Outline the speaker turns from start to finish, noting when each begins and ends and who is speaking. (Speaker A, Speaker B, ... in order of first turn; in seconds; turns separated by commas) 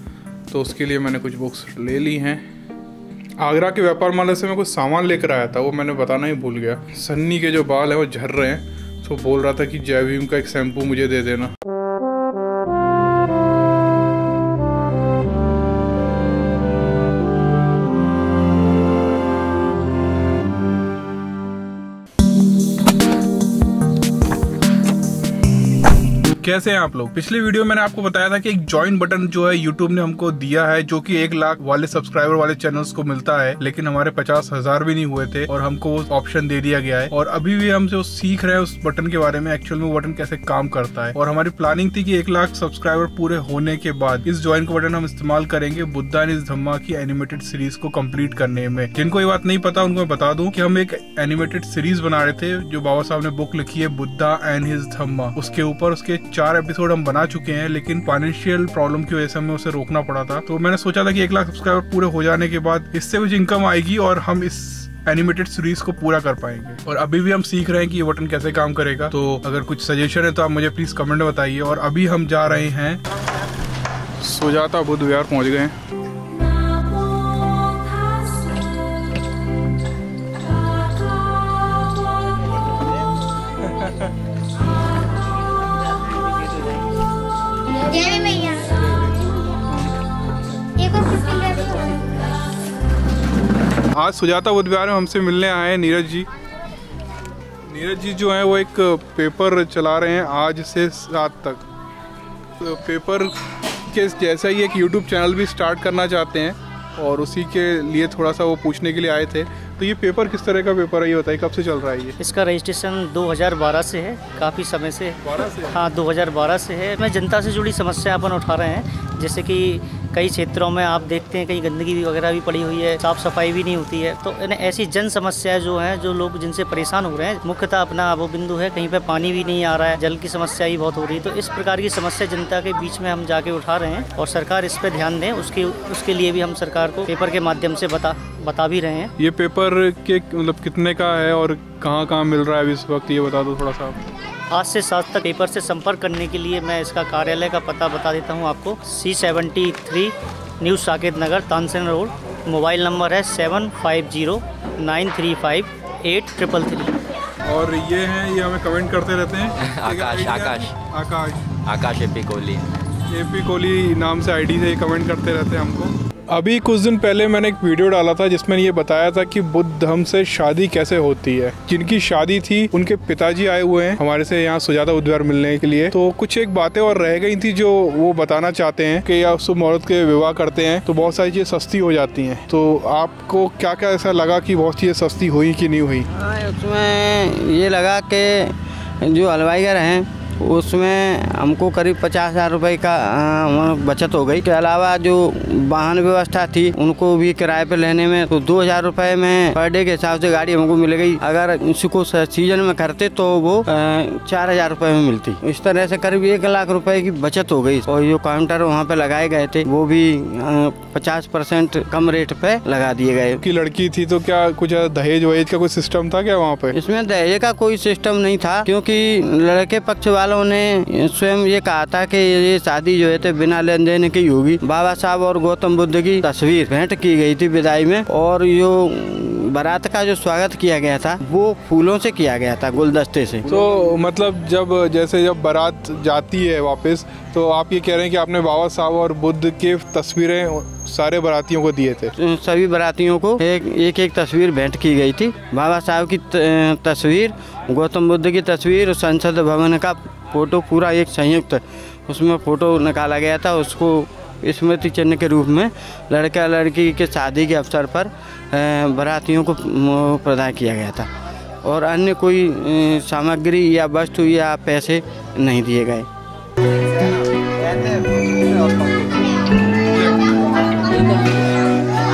Speaker A: 0.5-2.5, Speaker A: 3.4-11.5, Speaker A: 26.4-73.0, Speaker A: 74.2-75.8, Speaker A: 83.7-84.0, Speaker A: 89.7-89.9, Speaker A: 93.9-96.3, Speaker A: 97.7-101.7, Speaker A: 102.6-103.3, Speaker A: 103.9-112.2, Speaker B: 112.2-139.1, Speaker A: 115.2-115.8, Speaker A: 139.2-144.0, Speaker B: 144.5-157.0, Speaker A: 157.4-161.6, Speaker C: 159.6-160.7, Speaker C: 161.7-162.7, Speaker A: 163.1-186.1, Speaker D: 186.1-213.4, Speaker A: 213.4-216.8, Speaker D: 216.7-233.5, Speaker A: 233.5-242.1, Speaker D: 242.2-261.1, Speaker D: 261.6-266.1, Speaker D: 267.7-268.7, Speaker C: 269.1-269.3, Speaker A: 269.9-271.0